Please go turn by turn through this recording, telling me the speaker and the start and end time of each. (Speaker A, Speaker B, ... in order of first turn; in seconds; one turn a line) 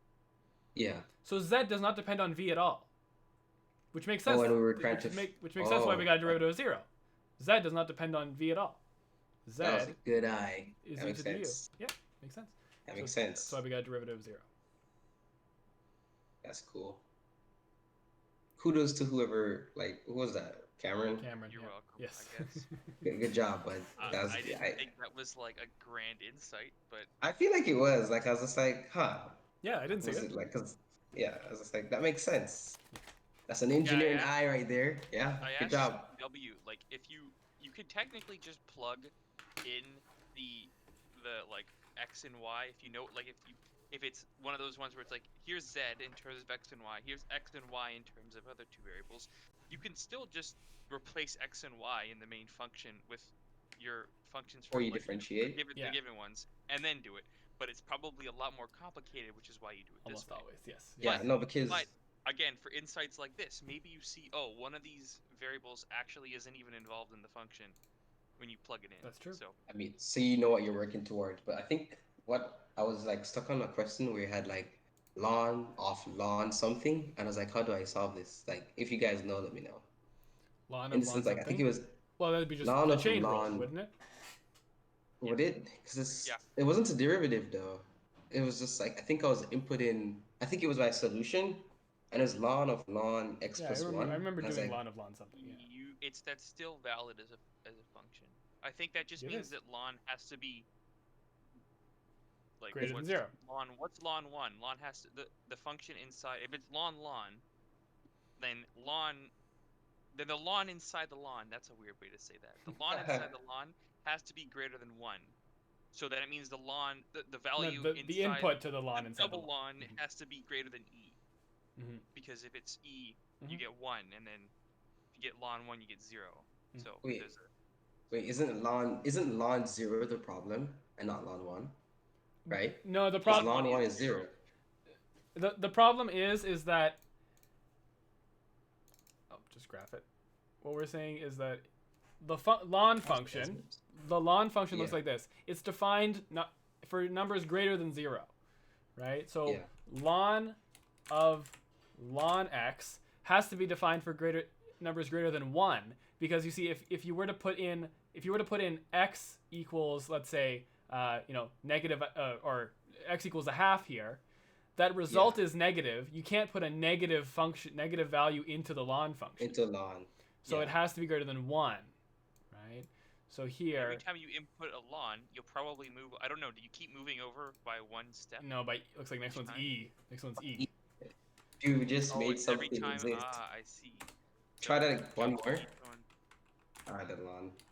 Speaker A: 0.8-1.1
Speaker B: 1.2-2.9
Speaker B: 3.9-6.9
Speaker A: 4.2-6.4
Speaker B: 7.4-8.8
Speaker B: 9.4-9.9
Speaker A: 9.6-11.7
Speaker B: 10.8-14.5
Speaker A: 12.9-13.6
Speaker A: 16.4-17.0
Speaker A: 18.6-21.3
Speaker B: 21.2-23.1
Speaker C: 21.5-22.6
Speaker A: 23.0-24.9
Speaker C: 24.0-27.1
Speaker A: 27.2-29.4
Speaker B: 29.6-30.3
Speaker A: 30.0-32.8
Speaker A: 33.5-36.1
Speaker C: 33.8-34.3
Speaker C: 35.4-60.4
Speaker A: 54.7-55.6
Speaker B: 60.0-61.3
Speaker A: 61.0-61.9
Speaker C: 61.0-67.8
Speaker C: 68.4-69.5
Speaker B: 69.0-69.4
Speaker A: 69.7-79.9
Speaker B: 80.7-83.9
Speaker A: 80.9-82.0
Speaker A: 82.6-83.7
Speaker A: 85.2-94.8
Speaker B: 93.5-95.7
Speaker C: 95.3-100.7
Speaker B: 99.2-99.5
Speaker C: 102.6-107.4
Speaker B: 102.7-103.3
Speaker C: 108.4-109.3
Speaker C: 110.1-115.3
Speaker A: 112.9-113.3
Speaker C: 115.9-121.2
Speaker B: 117.5-120.0
Speaker B: 121.8-122.0
Speaker C: 122.1-124.5
Speaker C: 125.1-127.5
Speaker A: 127.0-127.3
Speaker A: 128.1-131.8
Speaker B: 132.4-133.6
Speaker A: 132.5-134.3
Speaker C: 133.2-134.3
Speaker B: 135.3-137.0
Speaker B: 139.3-140.1
Speaker B: 140.6-141.7
Speaker B: 142.2-148.3
Speaker A: 143.0-143.8
Speaker A: 144.7-145.0
Speaker B: 148.9-150.6
Speaker B: 151.1-164.2
Speaker B: 164.8-169.6
Speaker A: 165.1-165.4
Speaker A: 169.4-170.7
Speaker B: 170.4-171.9
Speaker B: 172.5-174.0
Speaker C: 173.8-178.4
Speaker B: 178.4-180.7
Speaker C: 179.3-179.7
Speaker A: 180.6-183.3
Speaker C: 182.1-186.1
Speaker A: 184.6-185.7
Speaker A: 186.9-187.6